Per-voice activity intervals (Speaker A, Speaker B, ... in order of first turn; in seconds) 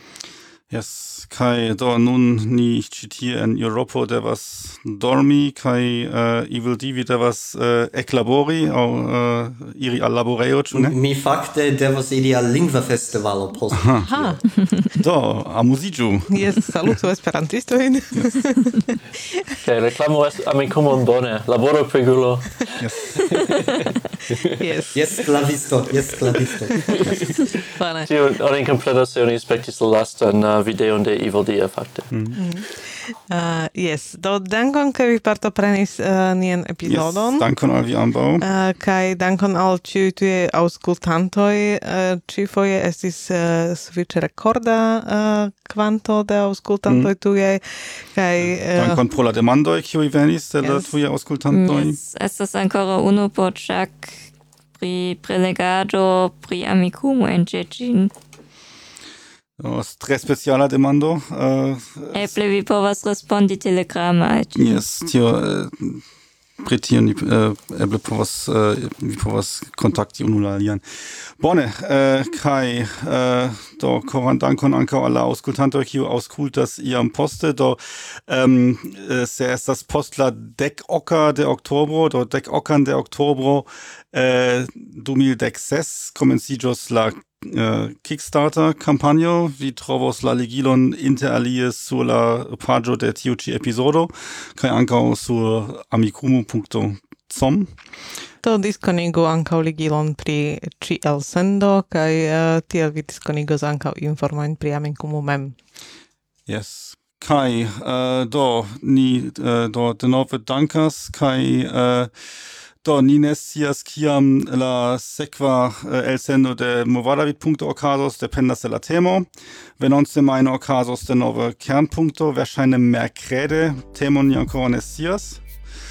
Speaker A: 0.7-10.9, 13.7-14.1, 14.9-16.5, 22.8-23.1, 36.9-38.4, 46.9-47.1, 48.6-52.0, 59.6-62.4, 64.6-66.0, 66.6-70.8, 71.4-97.7, 106.5-112.1, 112.8-119.3, 119.8-125.4
Speaker B: 10.7-14.5, 24.9-27.2
Speaker C: 14.1-14.4, 16.3-19.0, 24.6-25.0, 26.7-27.0, 27.8-28.1, 32.4-32.7, 33.3-37.5, 38.4-49.0, 50.6-50.9, 98.4-105.6
Speaker D: 19.6-24.5, 26.4-27.5, 28.1-32.1
Speaker E: 51.5-54.2, 54.8-58.1, 62.1-64.8